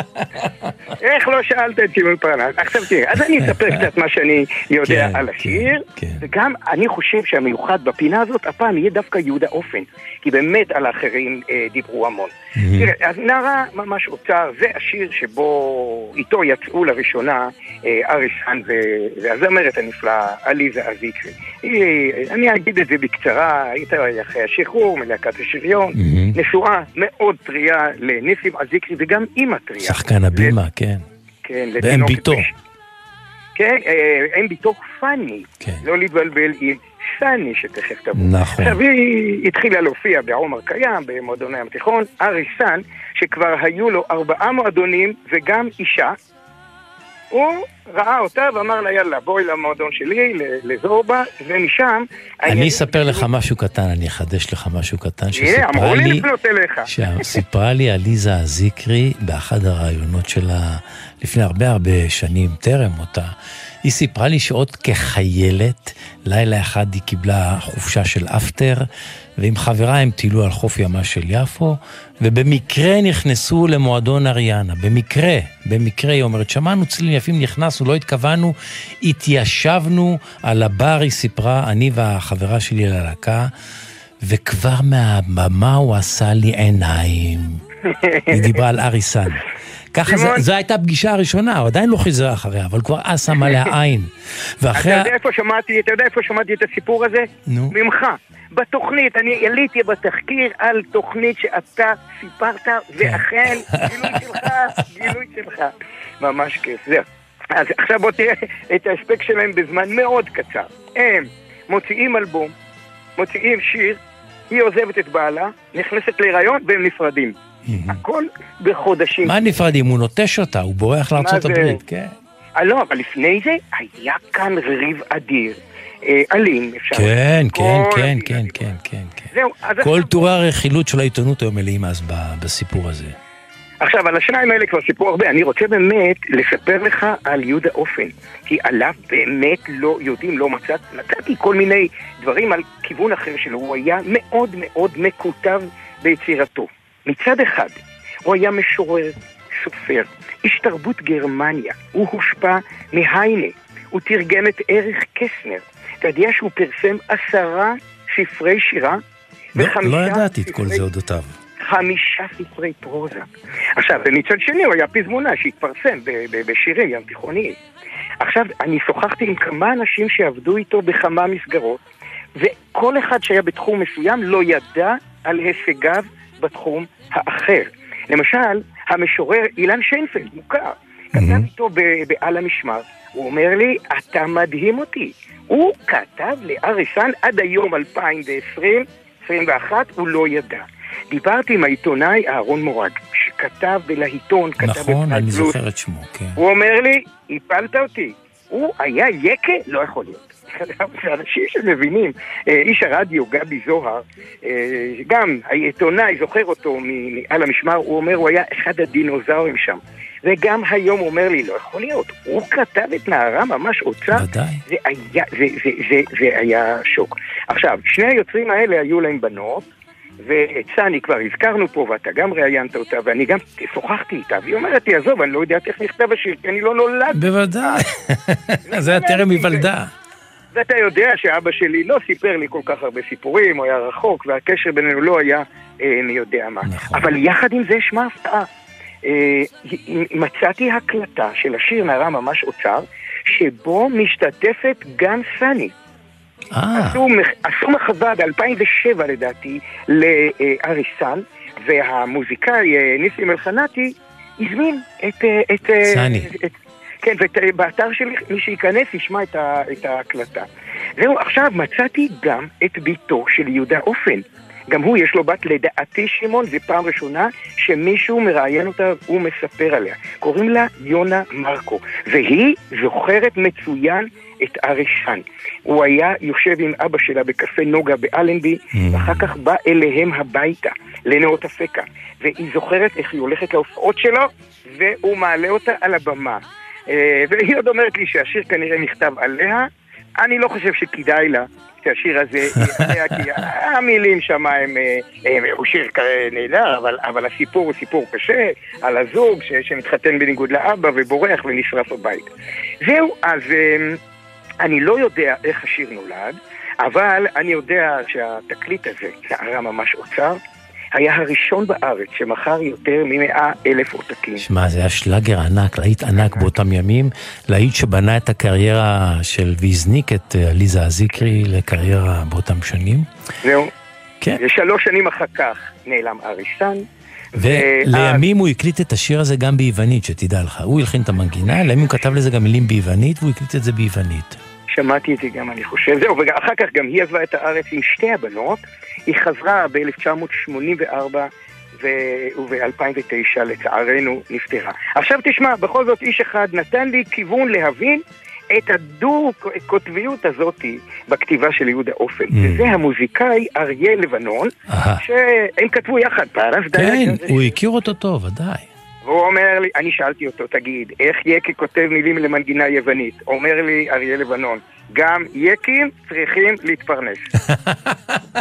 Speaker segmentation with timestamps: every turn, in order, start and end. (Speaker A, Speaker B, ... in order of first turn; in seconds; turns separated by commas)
Speaker A: 1.0-30.5, Speaker B: 3.4-3.8, Speaker B: 4.8-6.2, Speaker B: 12.6-12.9, Speaker B: 26.0-26.3, Speaker B: 29.8-31.0, Speaker A: 31.4-32.5, Speaker B: 31.8-32.5, Speaker A: 33.5-46.1, Speaker B: 38.1-38.8, Speaker A: 47.3-53.2, Speaker B: 52.5-56.2, Speaker A: 55.4-56.9, Speaker B: 56.9-63.3, Speaker B: 63.8-68.8, Speaker B: 69.4-83.5, Speaker B: 84.2-87.6, Speaker A: 88.1-88.6, Speaker B: 88.3-89.4, Speaker B: 89.9-95.1, Speaker A: 90.0-90.4, Speaker A: 94.8-112.5, Speaker B: 97.5-97.8, Speaker B: 103.0-103.9, Speaker A: 113.2-114.0, Speaker A: 114.5-117.3, Speaker B: 117.7-118.0, Speaker A: 117.9-119.4, Speaker B: 119.2-122.1, Speaker A: 121.2-121.8, Speaker A: 122.6-128.7, Speaker B: 126.9-133.1, Speaker A: 129.3-130.2, Speaker A: 133.8-147.7, Speaker A: 148.2-159.0, Speaker A: 159.6-160.8, Speaker B: 159.6-161.3, Speaker A: 161.7-167.5, Speaker A: 168.2-171.8, Speaker A: 172.4-195.6, Speaker B: 181.2-181.4, Speaker B: 194.6-196.4, Speaker A: 196.4-219.7, Speaker B: 214.1-214.6, Speaker A: 220.2-227.8, Speaker B: 227.1-229.9, Speaker A: 228.7-229.7, Speaker A: 230.5-238.5, Speaker B: 236.6-237.1, Speaker A: 239.0-245.7, Speaker B: 246.5-247.0, Speaker A: 246.8-260.4, Speaker B: 255.9-256.3, Speaker A: 261.0-289.7, Speaker B: 278.7-279.2, Speaker A: 290.2-302.2, Speaker A: 302.8-304.0, Speaker A: 304.6-310.4, Speaker A: 310.9-314.4, Speaker B: 314.4-323.0, Speaker A: 316.2-316.4, Speaker A: 323.4-323.7, Speaker A: 324.4-326.8, Speaker A: 327.4-328.2, Speaker B: 327.4-334.4, Speaker A: 334.7-341.3, Speaker A: 341.8-357.5, Speaker B: 352.3-352.7, Speaker B: 354.7-355.0, Speaker B: 356.7-358.7, Speaker A: 359.0-367.2